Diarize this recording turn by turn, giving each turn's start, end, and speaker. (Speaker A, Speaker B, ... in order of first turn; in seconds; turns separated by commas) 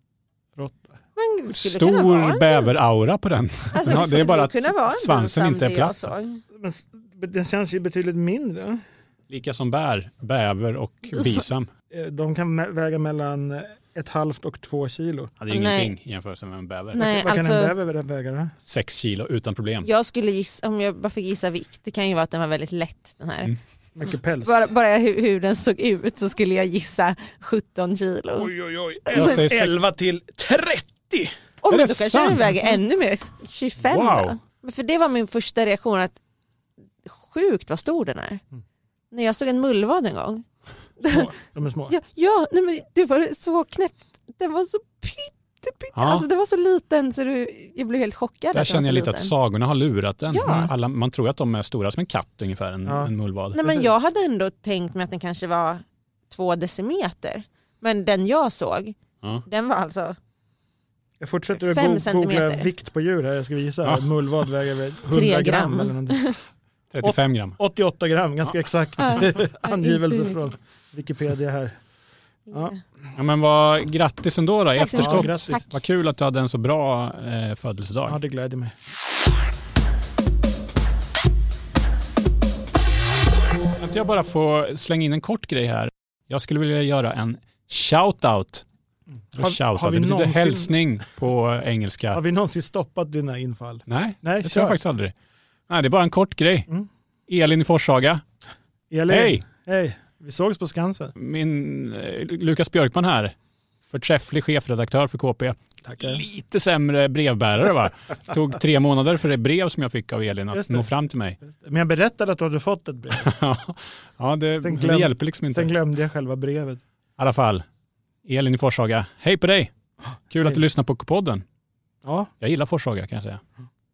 Speaker A: 0.6-1.0, Speaker B: 1.1-2.7, Speaker C: 1.5-6.1, Speaker B: 3.7-6.4, Speaker A: 6.5-8.8, Speaker C: 9.3-11.7, Speaker A: 11.9-15.3, Speaker C: 15.4-17.1, Speaker B: 15.5-15.9, Speaker B: 16.9-17.7, Speaker A: 16.9-18.5, Speaker C: 18.6-19.9, Speaker B: 19.8-23.5, Speaker A: 23.9-24.6, Speaker B: 24.4-28.5, Speaker A: 28.3-31.3, Speaker B: 29.1-29.4, Speaker C: 29.1-29.7, Speaker B: 31.6-36.2, Speaker C: 31.7-32.8, Speaker C: 33.8-34.4, Speaker B: 37.0-38.4, Speaker B: 39.1-40.4, Speaker B: 41.0-41.3, Speaker A: 41.0-41.9, Speaker B: 41.9-49.3, Speaker C: 45.9-46.3, Speaker C: 48.5-53.6, Speaker B: 50.3-50.7, Speaker A: 52.8-53.9, Speaker B: 53.5-60.2, Speaker A: 61.2-66.2, Speaker B: 61.5-62.7, Speaker C: 63.8-64.1, Speaker B: 65.1-66.4, Speaker C: 66.9-67.5, Speaker A: 67.0-71.8, Speaker B: 69.0-70.4, Speaker A: 72.5-72.7, Speaker C: 73.2-78.2, Speaker B: 74.8-75.7, Speaker A: 74.9-75.6, Speaker A: 78.0-78.7, Speaker C: 83.8-88.6, Speaker A: 89.3-90.7, Speaker C: 89.3-92.2, Speaker A: 92.1-94.8, Speaker C: 93.9-95.1, Speaker C: 95.7-96.7, Speaker C: 97.3-98.2, Speaker A: 98.9-101.1, Speaker C: 99.1-99.4, Speaker C: 101.2-103.3, Speaker C: 103.9-111.4, Speaker A: 105.8-106.2, Speaker A: 110.5-110.9, Speaker A: 111.4-113.3, Speaker C: 113.1-115.7, Speaker A: 114.6-116.8, Speaker C: 117.2-117.6, Speaker C: 118.2-119.7, Speaker C: 120.3-121.4, Speaker A: 122.0-122.3, Speaker C: 122.4-123.4